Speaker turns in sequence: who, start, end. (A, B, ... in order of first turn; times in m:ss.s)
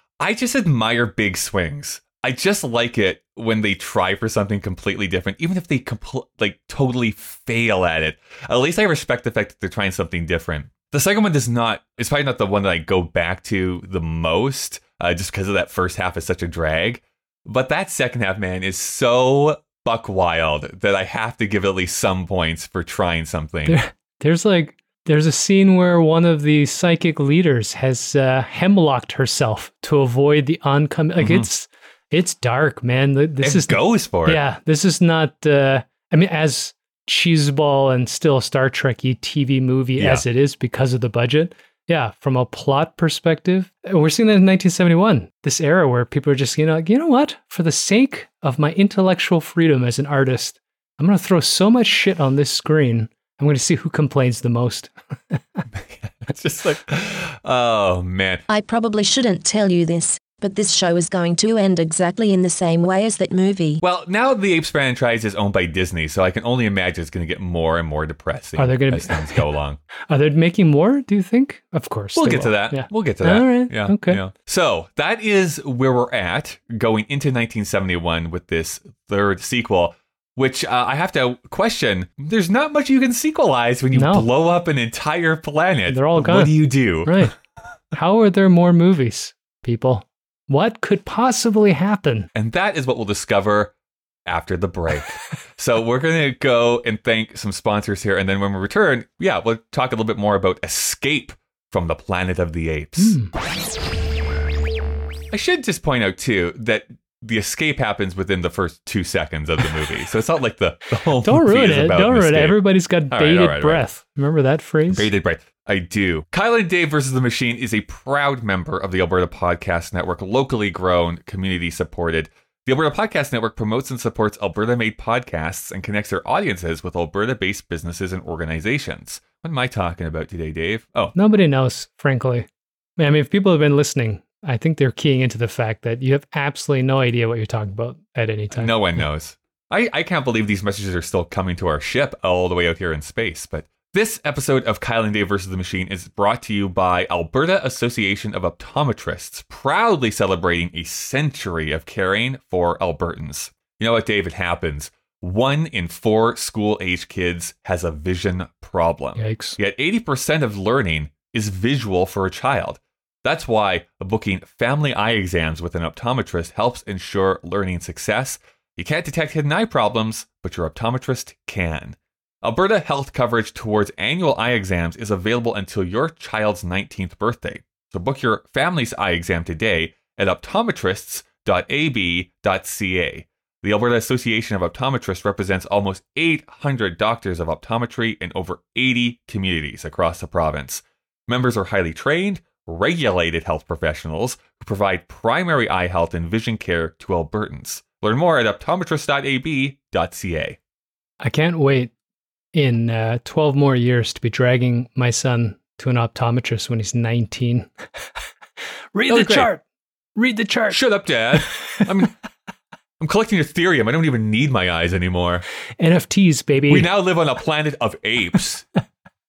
0:00.2-0:23.8 A
0:23.7-0:55.6 B
0:31.2-0:31.5 A
0:33.4-0:34.4 A
0:40.0-0:40.2 A
0:55.8-0:58.4 A
0:58.5-1:03.8 C
1:03.8-1:09.8 A
1:08.6-1:09.4 B
1:10.1-1:14.2 B
1:12.2-1:27.3 A
1:23.9-1:24.3 B
1:25.9-1:26.5 B
1:27.0-1:27.3 B
1:27.9-1:32.3 B
1:32.3-1:33.7 A
1:34.3-1:43.2 A
1:43.0-1:43.3 B
1:45.3-1:53.8 A
1:51.2-1:55.1 B
1:54.9-2:11.2 A
2:11.2-2:12.5 B
2:13.0-2:18.8 B
2:18.5-3:20.6 A
2:39.2-2:39.6 B
3:21.2-3:21.9 B
3:22.5-3:27.7 B
3:28.9-3:29.6 B
3:29.1-3:29.5 A
3:30.2-3:30.8 B
3:30.7-3:32.1 A
3:31.4-3:31.9 B
3:33.0-3:35.4 A
3:35.8-3:36.9 B
3:36.7-3:38.7 A